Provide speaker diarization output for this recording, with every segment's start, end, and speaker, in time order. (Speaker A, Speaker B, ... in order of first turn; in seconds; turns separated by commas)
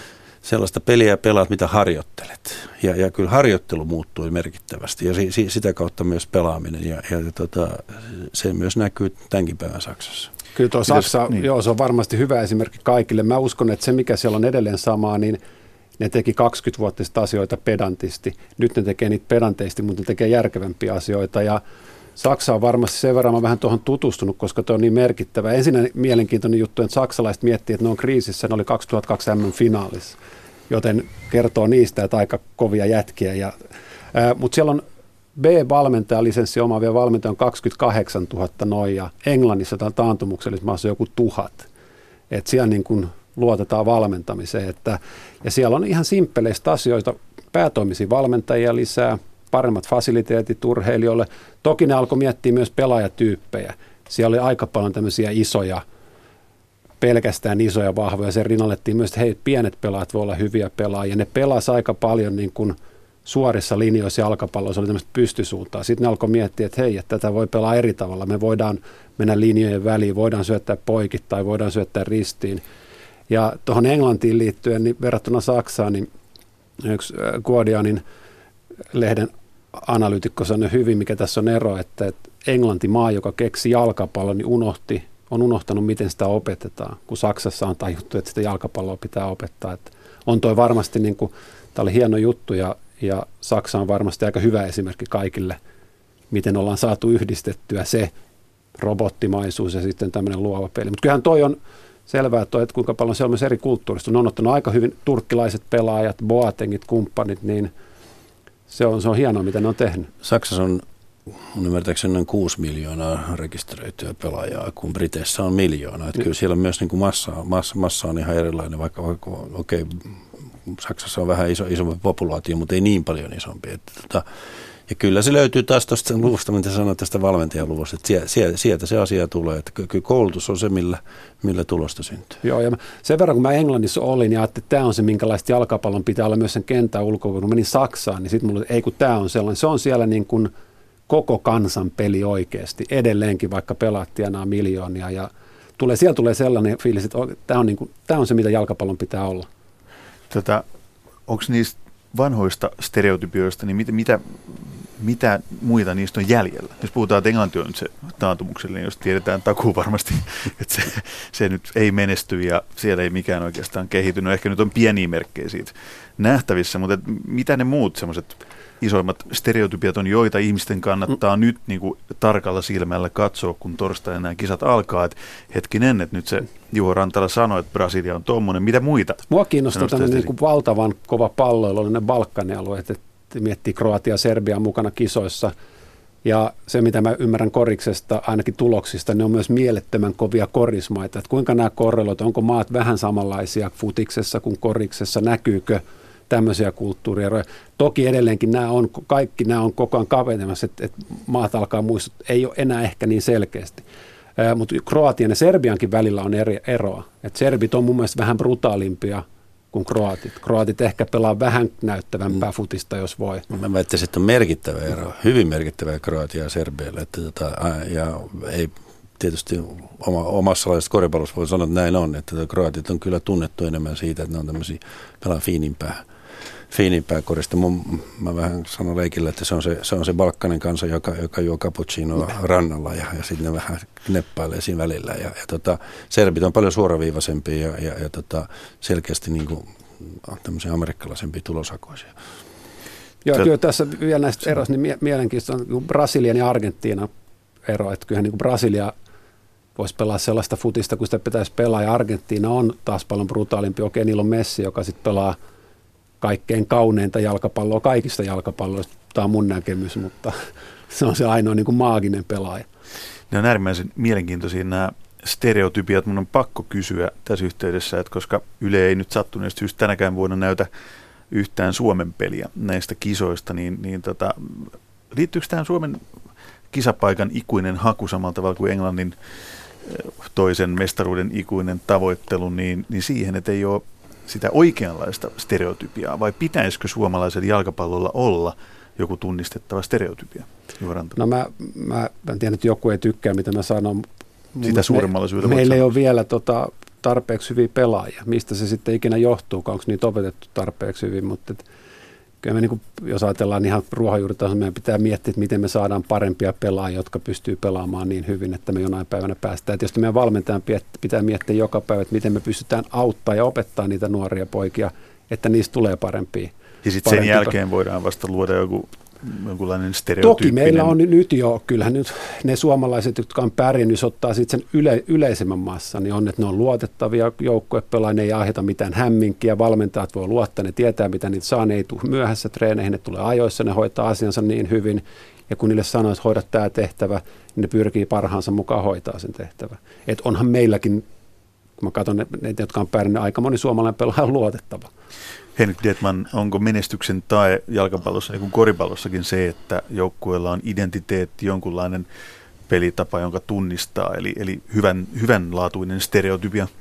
Speaker A: 0.4-10.3, Speaker B: 10.6-15.4, Speaker B: 16.0-21.6, Speaker B: 22.2-30.2, Speaker B: 30.7-33.5, Speaker B: 34.1-34.8, Speaker B: 35.4-41.7, Speaker B: 42.3-55.8, Speaker B: 57.0-72.6, Speaker B: 73.3-76.1, Speaker B: 76.8-78.0, Speaker B: 78.9-95.6, Speaker B: 96.3-98.1, Speaker B: 98.8-107.7, Speaker B: 108.7-110.1, Speaker A: 110.2-124.2, Speaker A: 124.9-132.4, Speaker B: 132.4-140.5, Speaker B: 141.1-149.5, Speaker C: 150.3-150.7, Speaker C: 151.3-180.3, Speaker B: 179.3-185.5, Speaker B: 186.2-203.8, Speaker B: 204.4-213.4, Speaker A: 213.5-226.0, Speaker A: 226.7-242.1, Speaker B: 243.2-247.1, Speaker B: 247.7-248.9, Speaker B: 249.8-255.4, Speaker B: 256.2-260.4, Speaker B: 260.9-262.7, Speaker C: 263.3-270.7, Speaker C: 271.3-276.0, Speaker C: 276.7-279.2, Speaker C: 279.8-291.2, Speaker B: 291.2-301.6, Speaker C: 294.6-295.9, Speaker B: 302.4-316.5, Speaker C: 316.8-320.9, Speaker B: 317.0-317.5, Speaker B: 320.2-341.1, Speaker B: 341.8-344.9, Speaker C: 345.6-352.1, Speaker C: 352.7-356.7